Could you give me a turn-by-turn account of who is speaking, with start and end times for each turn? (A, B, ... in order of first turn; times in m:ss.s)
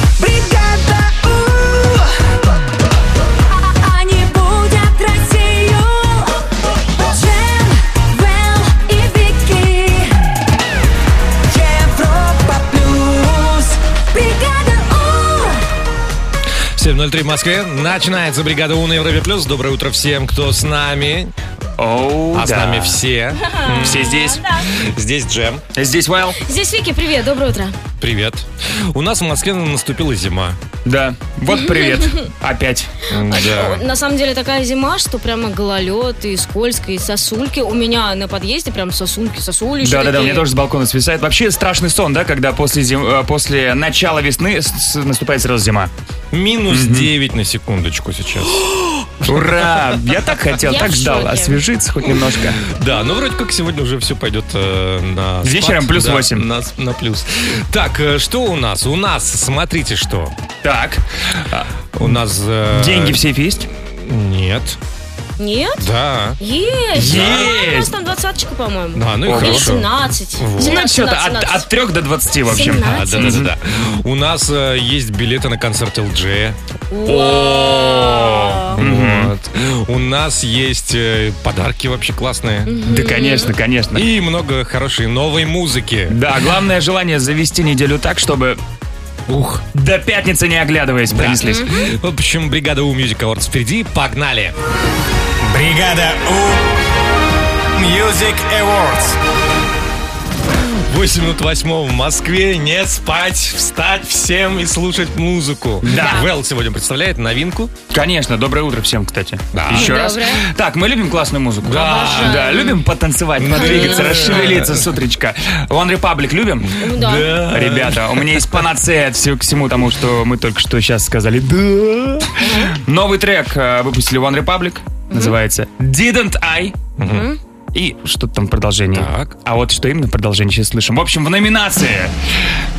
0:00.2-0:02.1 A
0:03.6-0:06.3 A
0:06.9-0:10.1 A
0:11.5-0:15.6 A
0:16.8-0:21.3 B
0:21.8-0:23.0 C
0:22.3-0:25.6 B
0:23.4-0:24.6 D
0:23.8-0:24.4 C
0:25.7-0:26.4 C
0:26.4-0:27.8 D
0:28.0-0:30.6 B
0:30.8-0:32.9 C
0:31.5-0:32.3 D
0:33.1-0:33.8 B
0:33.3-0:40.5 D
0:39.8-0:45.9 C
0:46.3-0:48.6 B
0:46.7-0:47.1 C
0:49.2-0:52.6 C
0:50.6-0:51.6 D
0:52.6-1:00.4 B
0:55.4-0:56.5 C
1:00.6-1:02.2 C
1:02.0-1:04.8 B
1:02.7-1:03.7 C
1:05.4-1:05.8 D
1:05.8-1:06.4 B
1:06.4-1:11.7 D
1:07.0-1:07.5 B
1:07.0-1:07.9 C
1:08.9-1:10.8 B
1:09.3-1:09.7 C
1:10.6-1:13.5 C
1:12.5-1:13.4 D
1:12.6-1:16.6 B
1:16.9-1:18.8 D
1:17.1-1:19.3 C
1:18.8-1:22.8 B
1:22.7-1:23.5 D
1:22.9-1:24.1 C
1:23.9-1:26.2 B
1:26.1-1:28.6 C
1:29.3-1:29.7 B
1:29.7-1:31.7 C
1:31.1-1:34.6 B
1:31.4-1:31.7 D
1:35.4-1:36.6 E
1:37.8-1:39.2 E
1:40.7-1:47.7 B
1:45.8-1:46.2 C
1:45.9-1:46.2 D
1:47.9-1:56.8 C
1:49.5-1:50.1 B
1:49.7-1:50.5 D
1:51.6-1:52.4 B
1:51.8-1:52.8 D
1:53.4-1:54.9 B
1:53.4-1:54.4 D
1:56.8-1:57.3 D
1:56.9-1:58.6 B
1:57.5-2:06.8 C
2:02.4-2:02.8 D
2:07.0-2:07.3 B
2:07.1-2:07.4 D
2:07.7-2:12.5 C
2:08.9-2:09.4 B